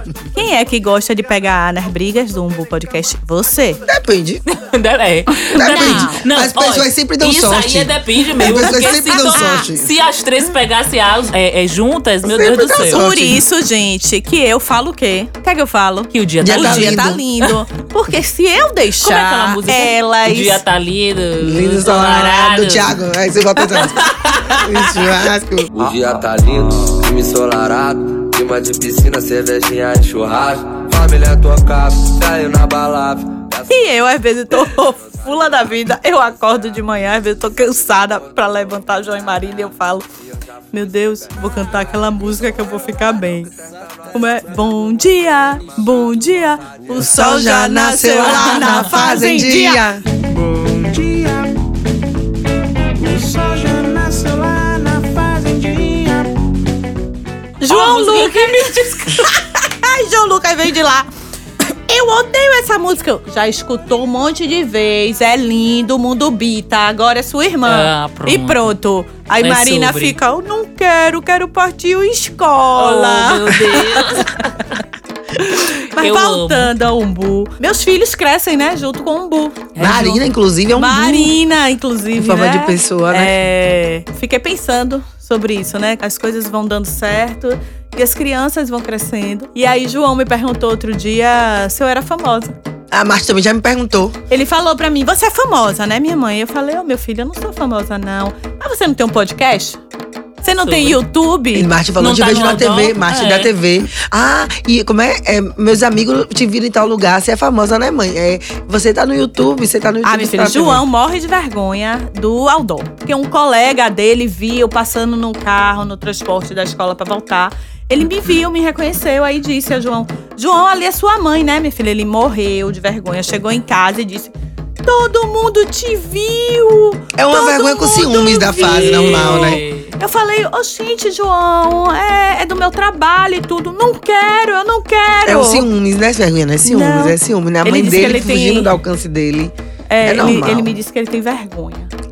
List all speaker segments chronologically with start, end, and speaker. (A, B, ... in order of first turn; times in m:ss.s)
0:00.3-0:03.8 A
0:03.8-0:04.4 B
0:04.5-0:13.1 C
0:05.5-0:09.9 B
0:05.5-0:06.2 A
0:08.4-0:09.7 A
0:12.2-0:13.4 B
0:12.9-0:20.6 A
0:16.1-0:17.1 C
0:16.4-0:17.2 B
0:19.0-0:23.0 C
0:21.4-0:25.7 B
0:23.8-0:24.8 C
0:25.7-0:33.7 D
0:33.7-0:40.0 A
0:40.7-0:43.5 A
0:44.1-0:49.8 A
0:46.9-0:50.0 B
0:48.2-0:48.9 C
0:50.8-0:51.2 E
0:53.1-0:56.2 E
0:57.6-1:01.1 A
0:57.7-0:59.3 C
1:01.9-1:14.4 A
1:07.6-1:08.7 C
1:09.4-1:10.2 C
1:12.8-1:14.7 C
1:15.4-1:19.8 A
1:16.0-1:16.7 C
1:19.7-1:20.2 C
1:19.8-1:21.3 B
1:20.7-1:32.5 A
1:22.2-1:23.3 B
1:32.9-1:34.2 B
1:34.3-1:39.8 A
1:40.4-1:41.7 A
1:40.6-1:41.0 C
1:41.5-1:50.8 B
1:42.0-1:43.5 C
1:50.0-2:04.3 A
2:04.8-2:15.6 A
2:07.2-2:09.6 B
2:08.6-2:09.9 C
2:15.2-2:20.7 B
2:16.6-2:18.7 A
2:19.9-2:21.9 A